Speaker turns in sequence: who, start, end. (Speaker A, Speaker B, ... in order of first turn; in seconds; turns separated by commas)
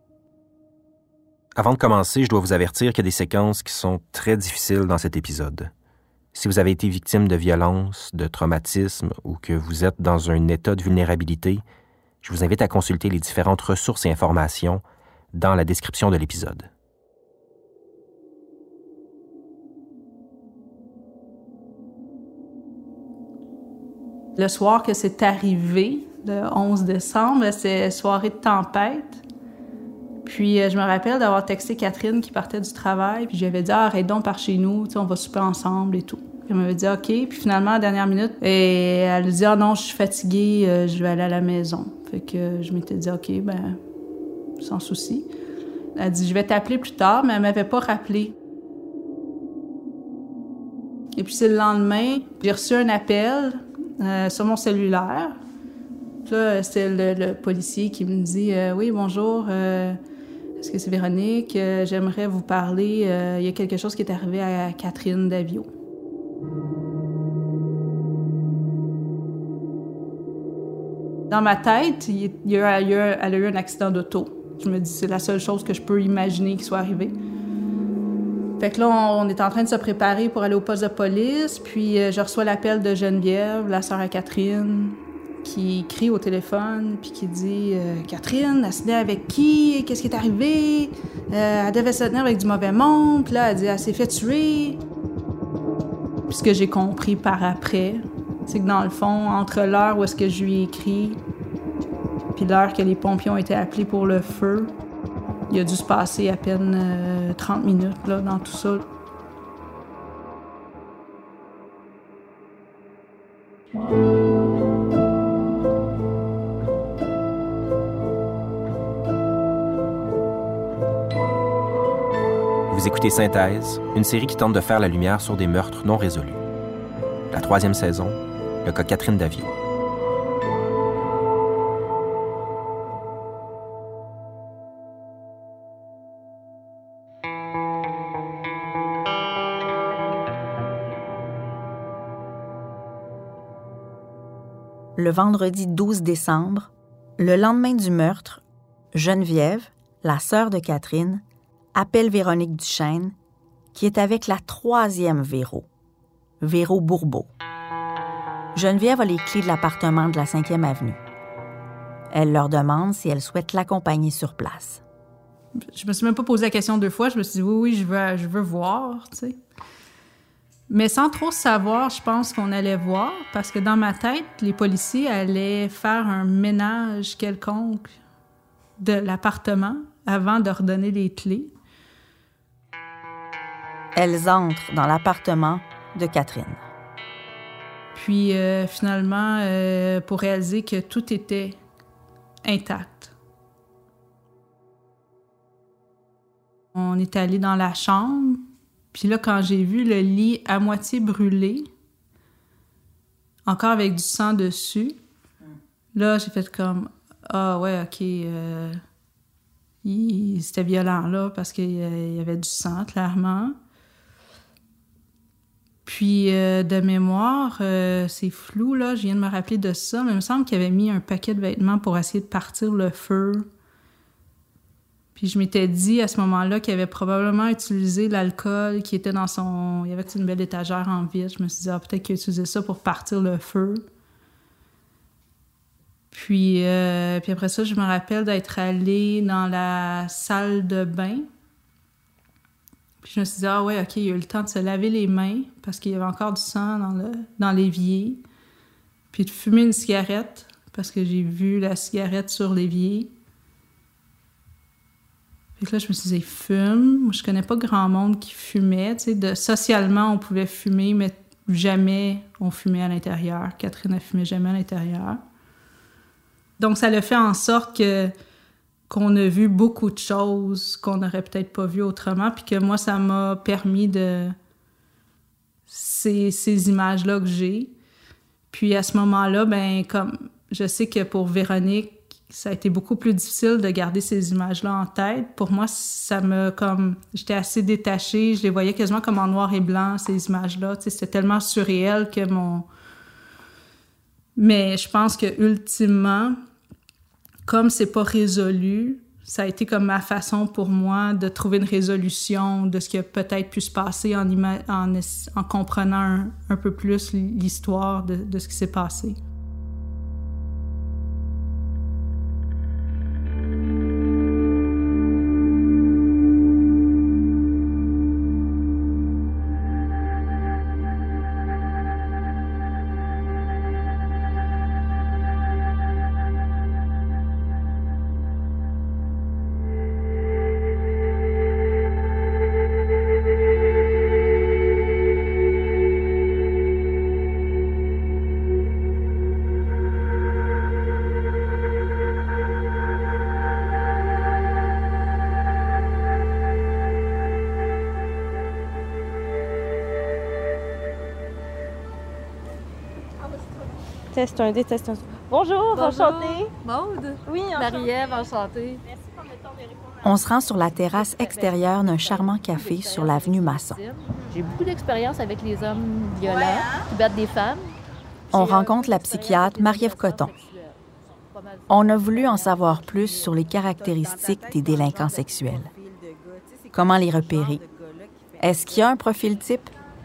Speaker A: 1.6-5.7, Speaker A: 6.3-11.6, Speaker A: 12.2-16.7, Speaker B: 24.4-29.2, Speaker B: 30.2-43.8, Speaker B: 44.6-45.3, Speaker B: 46.0-48.3, Speaker B: 51.2-55.4, Speaker B: 56.2-60.0, Speaker B: 60.6-65.7, Speaker B: 71.3-77.2, Speaker B: 78.6-94.8, Speaker B: 96.3-101.2, Speaker B: 102.3-104.7, Speaker B: 105.5-108.8, Speaker A: 122.7-126.4, Speaker A: 127.3-129.5, Speaker C: 145.0-148.4, Speaker C: 148.9-151.2, Speaker C: 151.8-153.2, Speaker C: 153.7-155.7, Speaker C: 156.4-157.3, Speaker C: 158.6-161.0, Speaker C: 162.1-164.8, Speaker B: 165.6-169.4, Speaker B: 170.7-178.0, Speaker B: 178.8-181.5, Speaker C: 183.9-186.6, Speaker B: 187.9-191.6, Speaker B: 192.4-193.1, Speaker B: 196.8-201.7, Speaker B: 203.4-205.0, Speaker B: 205.9-208.8, Speaker B: 209.8-213.6, Speaker B: 215.9-223.5, Speaker B: 225.2-233.8, Speaker B: 236.1-241.3, Speaker B: 243.0-248.2, Speaker B: 249.1-253.1, Speaker B: 255.6-265.2, Speaker B: 266.6-268.1, Speaker B: 268.9-274.4, Speaker B: 275.7-277.7, Speaker B: 278.5-292.7, Speaker B: 294.4-296.4, Speaker B: 297.5-309.2, Speaker D: 354.1-356.5, Speaker E: 355.8-356.4, Speaker D: 357.3-357.9, Speaker E: 357.6-358.3, Speaker C: 360.0-363.8, Speaker E: 361.1-367.7, Speaker C: 368.3-370.3, Speaker E: 368.3-370.8, Speaker E: 371.4-371.6, Speaker C: 371.7-375.7, Speaker C: 376.7-377.6, Speaker C: 378.4-379.7